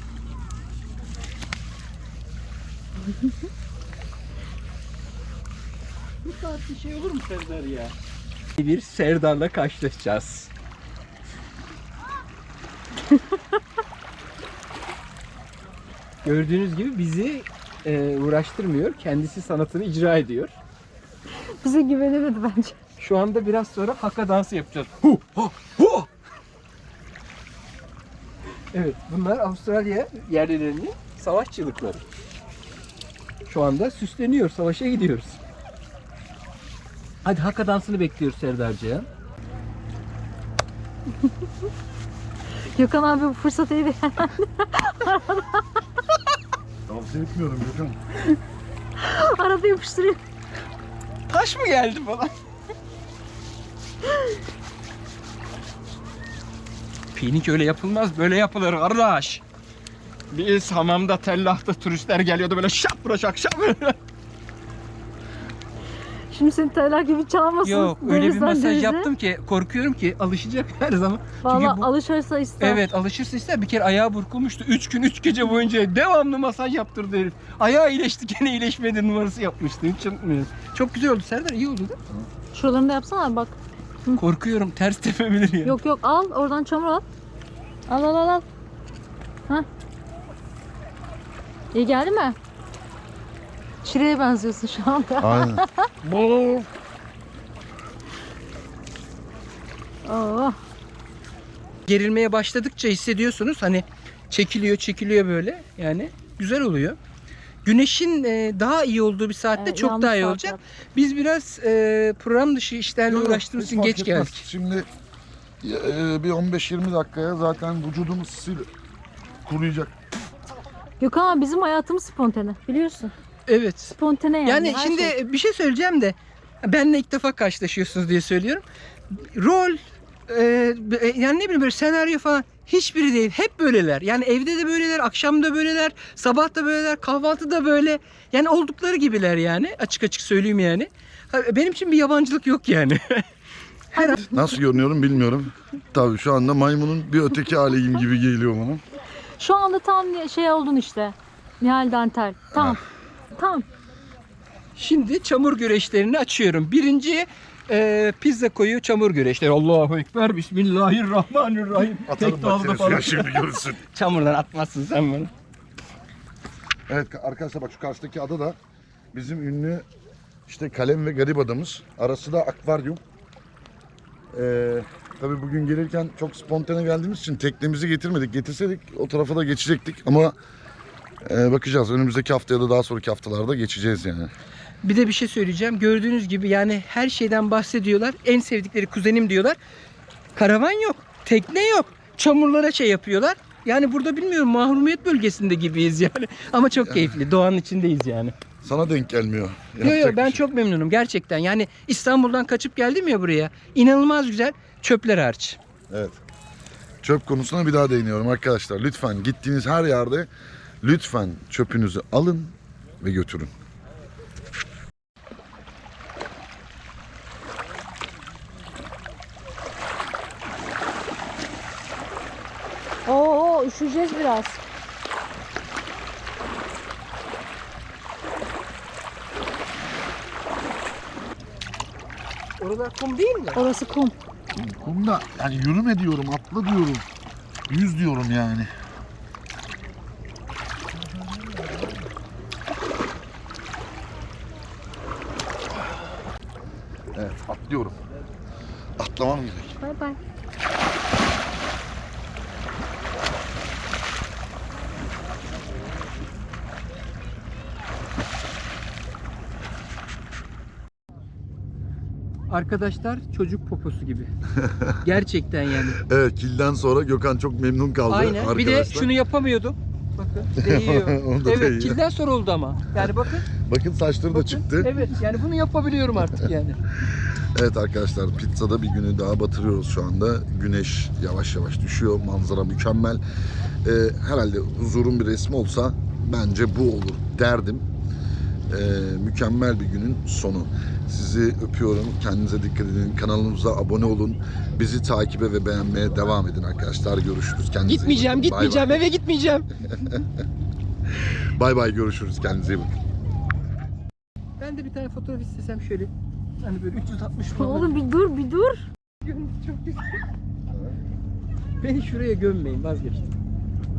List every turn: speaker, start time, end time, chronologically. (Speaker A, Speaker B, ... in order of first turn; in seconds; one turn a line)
Speaker A: 6.2-7.9
Speaker A: 8.6-10.5
Speaker A: 16.2-20.6
Speaker B: 21.4-22.8
Speaker A: 23.0-26.1
Speaker A: 28.7-32.0
Speaker A: 33.5-35.4
Speaker A: 37.2-39.1
Speaker B: 42.7-45.6
Speaker C: 46.9-48.0
Speaker B: 49.0-50.2
Speaker A: 51.3-52.3
Speaker A: 57.1-59.4
Speaker A: 60.3-64.0
Speaker B: 66.3-69.1
Speaker A: 67.6-71.8
Speaker B: 71.4-72.8
Speaker A: 72.6-82.0
Speaker B: 82.5-84.2
Speaker A: 84.2-85.8
Speaker B: 85.6-87.0
Speaker B: 87.9-88.4
Speaker B: 91.7-92.4
Speaker B: 93.8-95.9
Speaker C: 95.2-96.7
Speaker B: 100.0-100.6
Speaker A: 101.9-107.0
Speaker A: 107.6-114.5
Speaker B: 109.5-110.6
Speaker C: 113.1-114.9
Speaker C: 115.6-118.7
Speaker C: 119.5-119.9
Speaker B: 121.0-123.1
Speaker A: 123.5-143.2
Speaker B: 124.0-125.1
Speaker A: 143.9-144.2
Speaker B: 143.9-144.5
Speaker C: 144.3-148.8
Speaker B: 149.4-152.8
Speaker C: 152.5-152.8
Speaker B: 153.3-153.7
Speaker A: 154.8-165.3
Speaker C: 162.1-163.8
Speaker C: 166.9-168.6
Speaker C: 169.1-169.8
Speaker C: 170.5-173.0
Speaker C: 174.3-180.3
Speaker C: 181.2-184.3
Speaker A: 184.8-189.6
Speaker A: 190.3-198.3
Speaker C: 196.8-197.1
Speaker C: 198.6-200.4
Speaker A: 199.8-205.6
Speaker C: 205.9-206.2
Speaker C: 207.0-210.3
Speaker C: 210.8-213.5
Speaker B: 223.1-224.6
Speaker A: 232.6-233.6
Speaker B: 233.5-234.2
Speaker C: 234.5-237.0
Speaker C: 237.7-238.7
Speaker C: 247.1-248.0
Speaker C: 249.0-249.8
Speaker B: 249.8-250.2
Speaker A: 262.5-264.3
Speaker C: 264.5-265.0
Speaker A: 265.0-266.0
Speaker C: 266.0-269.1
Speaker A: 268.1-273.5
Speaker C: 270.6-272.0
Speaker C: 273.6-274.9
Speaker A: 274.3-276.8
Speaker C: 277.2-283.2
Speaker C: 283.8-287.8
Speaker C: 288.7-299.0
Speaker A: 297.8-299.7
Speaker C: 299.9-300.2
Speaker C: 301.1-302.9
Speaker A: 304.6-308.0
Speaker B: 307.5-308.8
Speaker A: 309.2-310.2
Speaker C: 310.7-310.9
Speaker A: 311.8-313.3